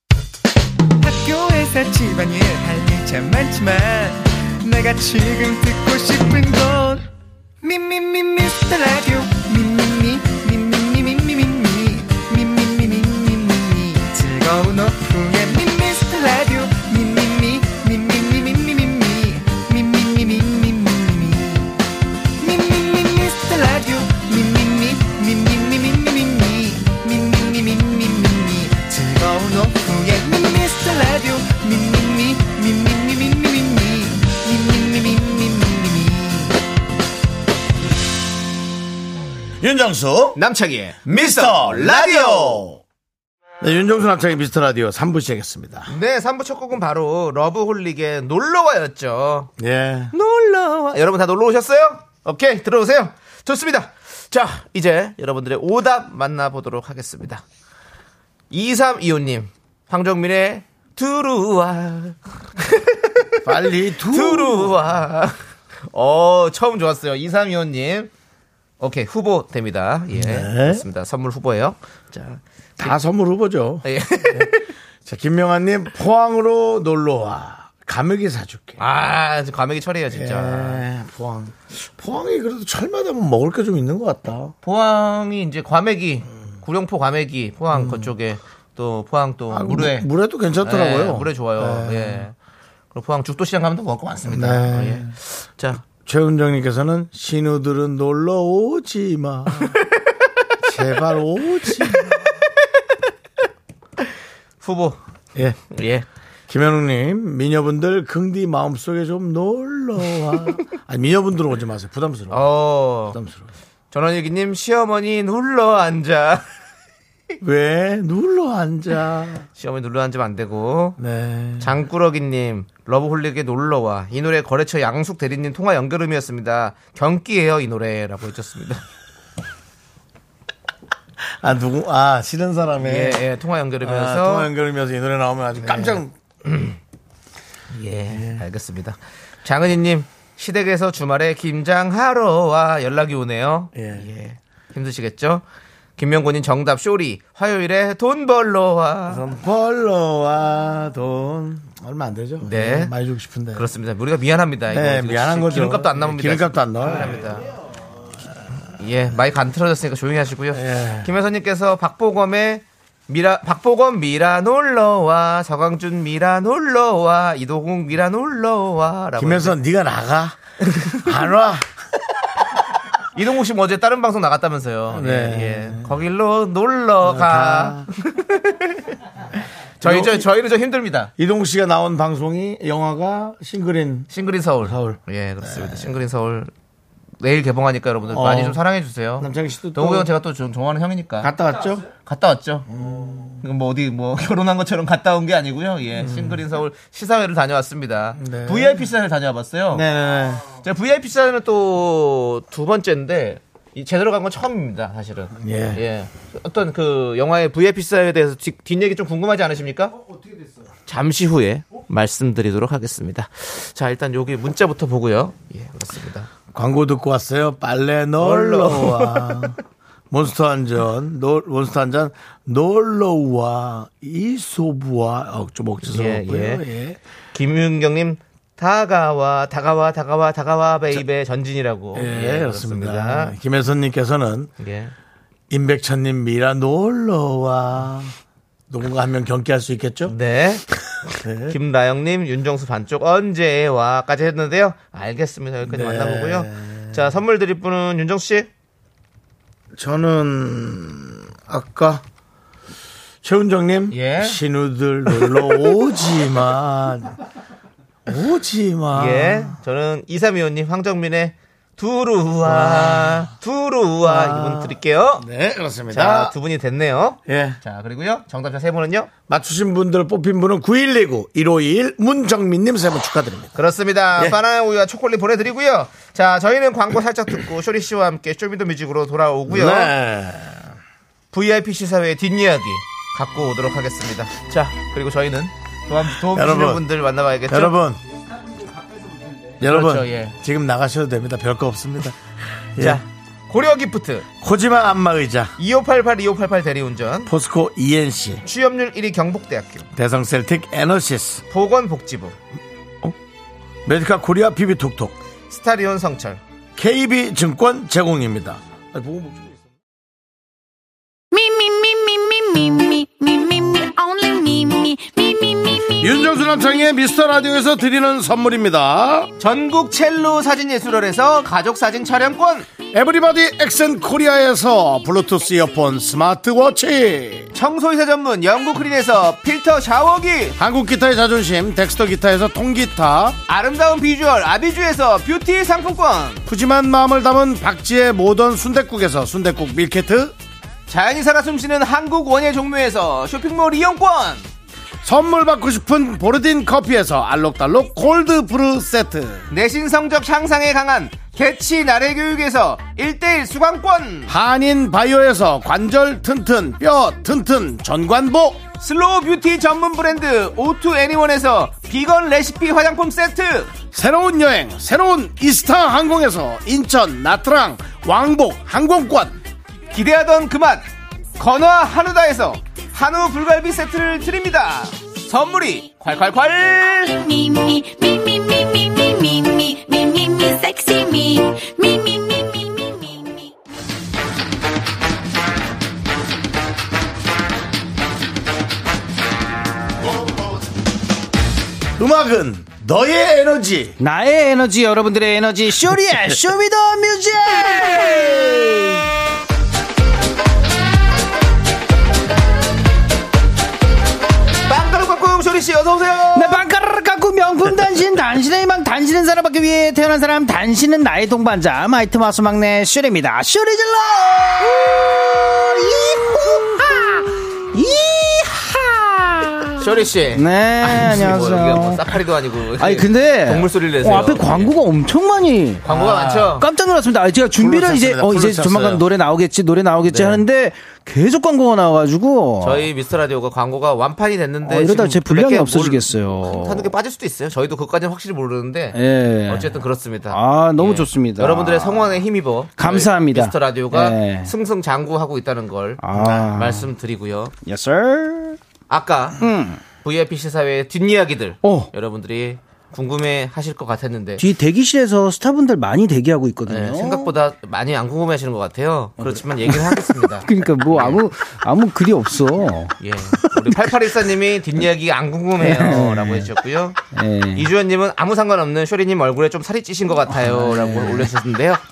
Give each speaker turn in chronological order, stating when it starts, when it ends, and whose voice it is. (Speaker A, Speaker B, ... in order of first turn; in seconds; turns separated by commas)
Speaker A: 1.0-7.1, Speaker A: 7.6-21.8, Speaker A: 22.4-36.6, Speaker B: 39.6-40.4, Speaker C: 40.4-42.6, Speaker B: 41.1-42.8, Speaker B: 43.6-45.9, Speaker C: 45.9-49.5, Speaker B: 49.6-50.1, Speaker C: 50.1-57.4, Speaker C: 58.5-63.4, Speaker B: 63.4-64.8, Speaker C: 64.0-65.4, Speaker C: 65.9-68.1, Speaker C: 68.8-72.9, Speaker B: 70.1-70.8, Speaker B: 72.8-74.5, Speaker C: 73.8-74.7, Speaker B: 75.0-78.8, Speaker C: 78.8-80.9, Speaker B: 80.1-84.5, Speaker C: 84.6-90.1, Speaker B: 87.7-88.1, Speaker B: 89.5-92.3, Speaker C: 90.6-92.3, Speaker C: 92.9-95.8, Speaker B: 94.3-95.2, Speaker B: 95.8-99.8, Speaker B: 100.6-102.3, Speaker C: 101.7-102.2, Speaker C: 104.6-105.0, Speaker C: 105.7-106.1, Speaker B: 106.5-112.5, Speaker C: 112.3-113.2, Speaker B: 113.0-113.5, Speaker C: 113.9-116.5, Speaker B: 117.4-119.5, Speaker C: 119.6-121.0, Speaker B: 121.0-121.8, Speaker C: 121.6-128.8, Speaker B: 131.4-133.2, Speaker C: 132.8-134.5, Speaker B: 133.8-136.2, Speaker C: 135.6-136.0, Speaker C: 137.7-145.4, Speaker B: 138.1-138.4, Speaker B: 143.8-144.1, Speaker C: 146.0-149.2, Speaker B: 149.1-153.7, Speaker C: 152.4-152.9, Speaker C: 153.5-157.4, Speaker B: 154.7-157.2, Speaker C: 158.8-169.6, Speaker B: 160.5-161.1, Speaker B: 169.2-171.7, Speaker C: 170.7-171.0, Speaker C: 173.2-178.9, Speaker B: 174.9-175.9, Speaker B: 177.0-177.9, Speaker C: 179.8-181.1, Speaker B: 179.8-180.3, Speaker B: 181.2-184.1, Speaker C: 184.1-186.5, Speaker B: 184.7-185.9, Speaker C: 187.2-191.3, Speaker B: 188.1-188.6, Speaker B: 189.2-190.1, Speaker B: 191.2-191.9, Speaker C: 191.9-192.7, Speaker B: 192.7-193.4, Speaker C: 193.4-199.9, Speaker B: 196.0-196.4, Speaker B: 198.2-198.9, Speaker B: 199.7-200.5, Speaker C: 200.6-210.0, Speaker B: 205.3-205.8, Speaker C: 210.9-216.3, Speaker B: 216.5-219.6, Speaker C: 218.2-219.5, Speaker B: 220.1-227.0, Speaker C: 225.8-226.6, Speaker C: 227.3-233.4, Speaker B: 231.9-234.5, Speaker C: 234.6-234.9, Speaker B: 235.5-238.1, Speaker B: 238.7-240.1, Speaker C: 240.1-240.7, Speaker B: 241.2-241.6, Speaker C: 241.5-248.5, Speaker B: 245.7-247.0, Speaker B: 249.8-252.0, Speaker B: 253.2-257.2, Speaker C: 253.9-254.4, Speaker B: 258.1-259.6, Speaker C: 258.9-265.2, Speaker B: 262.4-263.3, Speaker B: 264.0-266.3, Speaker C: 265.9-269.1, Speaker B: 267.3-267.6, Speaker B: 269.3-273.6, Speaker C: 273.6-279.9, Speaker B: 279.5-280.7, Speaker C: 281.3-287.8, Speaker B: 286.2-286.8, Speaker B: 287.5-288.0, Speaker B: 289.6-292.2, Speaker C: 289.6-290.3, Speaker B: 292.8-293.0, Speaker C: 292.8-294.3, Speaker B: 294.4-295.5, Speaker C: 295.6-297.3, Speaker B: 297.3-298.4, Speaker C: 298.4-299.9, Speaker B: 299.9-301.4, Speaker C: 301.5-302.4, Speaker B: 303.9-305.1, Speaker C: 305.5-306.4, Speaker B: 306.8-309.6, Speaker D: 311.3-316.0, Speaker B: 316.0-319.3, Speaker C: 319.4-322.7, Speaker B: 322.9-327.5, Speaker C: 327.5-330.6, Speaker B: 330.6-333.4, Speaker C: 333.5-336.4, Speaker B: 336.5-340.4, Speaker C: 340.9-344.5, Speaker B: 345.0-349.5, Speaker C: 349.5-354.3, Speaker B: 354.3-358.6, Speaker C: 358.8-363.7, Speaker B: 363.9-369.4, Speaker C: 369.9-370.9, Speaker C: 371.4-377.1, Speaker D: 377.0-383.5, Speaker B: 392.0-394.0, Speaker E: 394.0-399.1, Speaker C: 404.7-406.6, Speaker E: 406.3-422.2, Speaker C: 419.8-424.8, Speaker E: 422.8-425.9, Speaker C: 425.8-426.7, Speaker B: 425.9-426.5, Speaker E: 426.6-432.9, Speaker B: 427.6-429.1, Speaker C: 430.1-430.4, Speaker C: 432.6-446.0, Speaker E: 434.6-436.9, Speaker E: 438.9-439.7, Speaker E: 440.3-442.2, Speaker E: 442.8-444.5, Speaker E: 446.0-446.9, Speaker B: 446.1-446.5, Speaker C: 446.5-447.5, Speaker E: 447.6-448.6, Speaker C: 448.9-449.4, Speaker E: 449.4-449.8, Speaker C: 450.0-454.4, Speaker E: 451.6-451.9, Speaker E: 454.4-457.3, Speaker C: 456.7-461.2, Speaker E: 459.2-464.0, Speaker C: 463.0-467.0, Speaker E: 465.6-466.5, Speaker E: 467.1-467.7, Speaker C: 467.5-471.8, Speaker E: 470.3-471.3